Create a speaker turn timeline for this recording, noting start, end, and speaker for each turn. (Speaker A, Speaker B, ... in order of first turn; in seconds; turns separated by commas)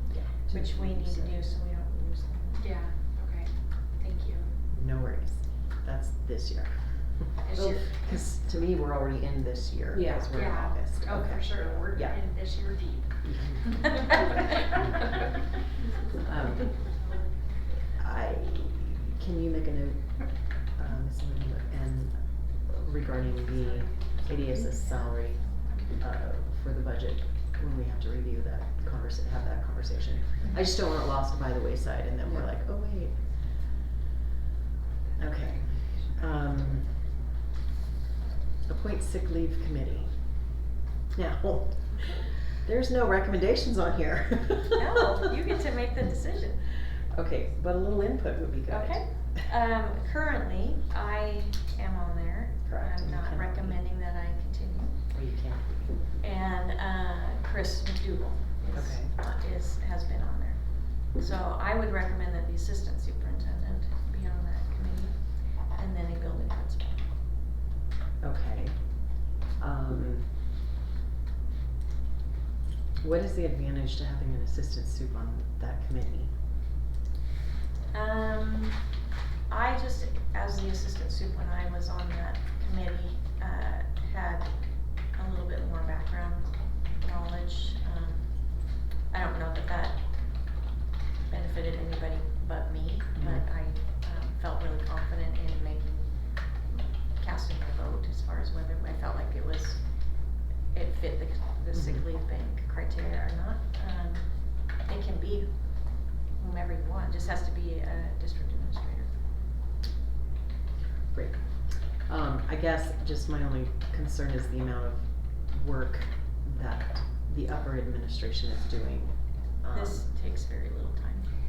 Speaker A: 0.1-0.5, Speaker B: 0.4-2.8, Speaker C: 2.6-4.5, Speaker A: 4.7-12.2, Speaker C: 7.4-8.0, Speaker C: 10.3-13.2, Speaker A: 13.2-14.7, Speaker C: 13.8-14.7, Speaker C: 15.8-17.2, Speaker A: 16.2-16.8, Speaker A: 18.0-33.3, Speaker C: 23.3-25.9, Speaker A: 35.2-37.1, Speaker A: 38.7-40.6, Speaker A: 41.1-45.2, Speaker B: 44.7-46.7, Speaker A: 47.1-49.2, Speaker B: 48.7-55.1, Speaker A: 52.6-53.8, Speaker A: 55.1-56.0, Speaker B: 56.2-67.0, Speaker A: 58.7-59.1, Speaker A: 68.2-70.3, Speaker A: 73.0-76.3, Speaker B: 77.9-78.9, Speaker B: 79.5-90.6, Speaker B: 91.3-96.2, Speaker A: 93.2-93.5, Speaker B: 96.7-109.1, Speaker A: 101.7-102.1, Speaker A: 111.1-120.1, Speaker B: 119.7-121.3